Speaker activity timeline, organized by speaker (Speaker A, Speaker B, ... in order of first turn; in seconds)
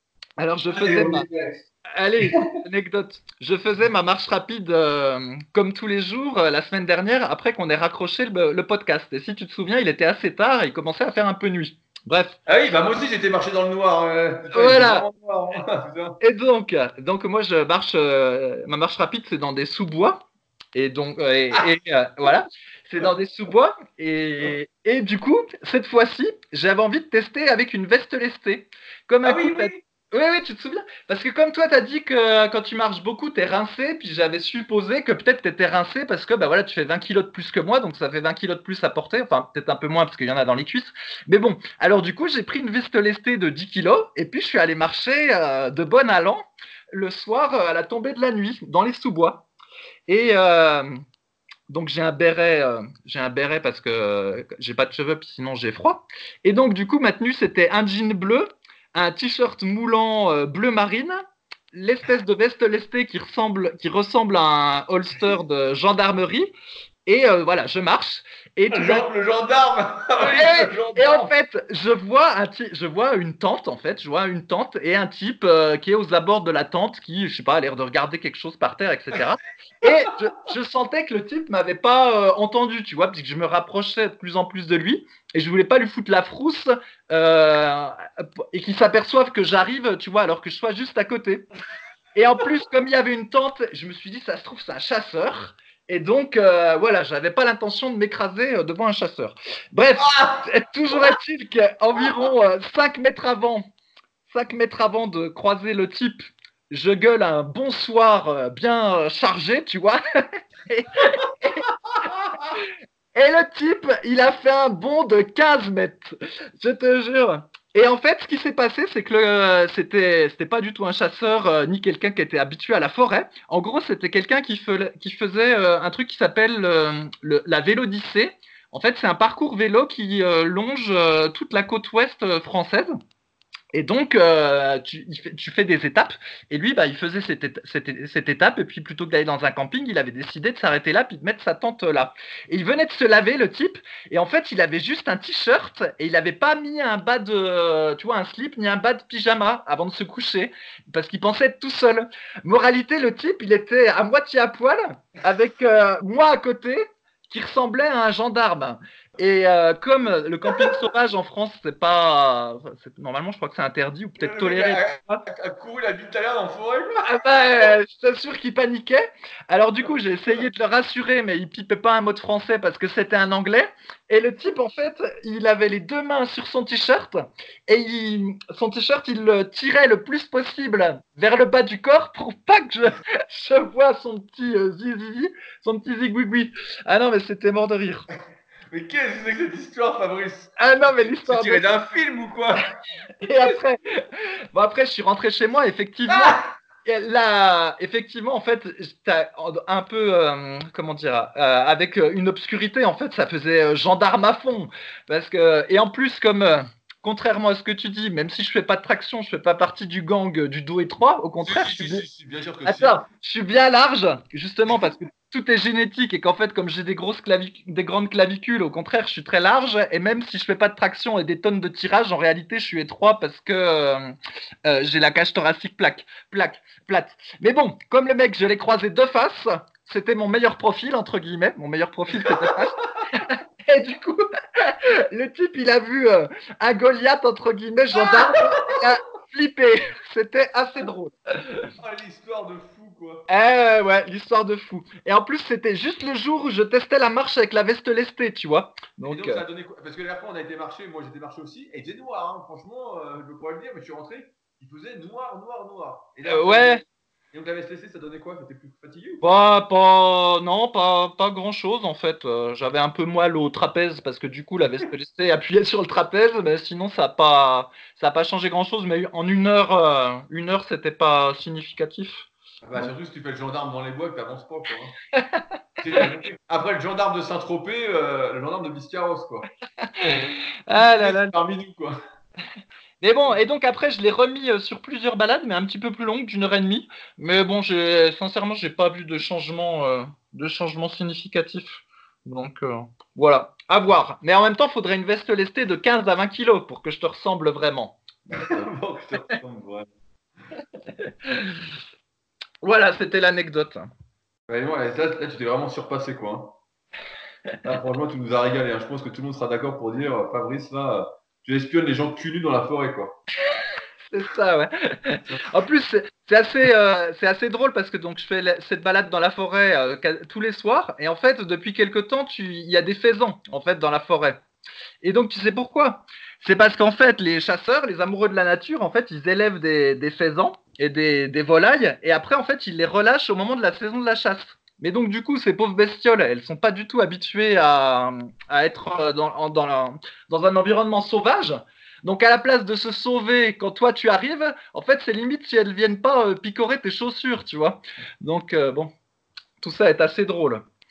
Speaker A: 0.4-1.2, 1.9-12.4, 14.5-15.1, 16.2-49.5, 50.1-50.9, 51.7-61.2, 61.7-66.5, 67.0-69.0, 70.2-91.5, 92.1-103.7, 104.3-111.7, 112.5-132.9, 133.7-165.2, 167.0-188.1, 190.6-191.7, 193.2-212.0, 212.6-224.1, 224.6-241.7, 243.3-249.4, 256.2-256.8, 259.2-272.3, 275.1-275.4, 279.8-281.3, 283.0-298.5, 300.9-301.6, 302.6-303.9, 313.5-324.4, 325.0-348.9, 349.6-350.6
Speaker B: 0.7-2.6, 12.4-16.2, 29.2-29.8, 68.7-71.3, 100.0-100.4, 112.1-112.4, 164.2-167.2, 188.7-192.6, 196.1-196.4, 211.4-213.0, 232.2-233.1, 241.8-243.3, 249.0-259.2, 272.6-274.9, 275.8-279.5, 280.7-281.9, 298.3-299.9, 304.5-306.6, 307.6-313.2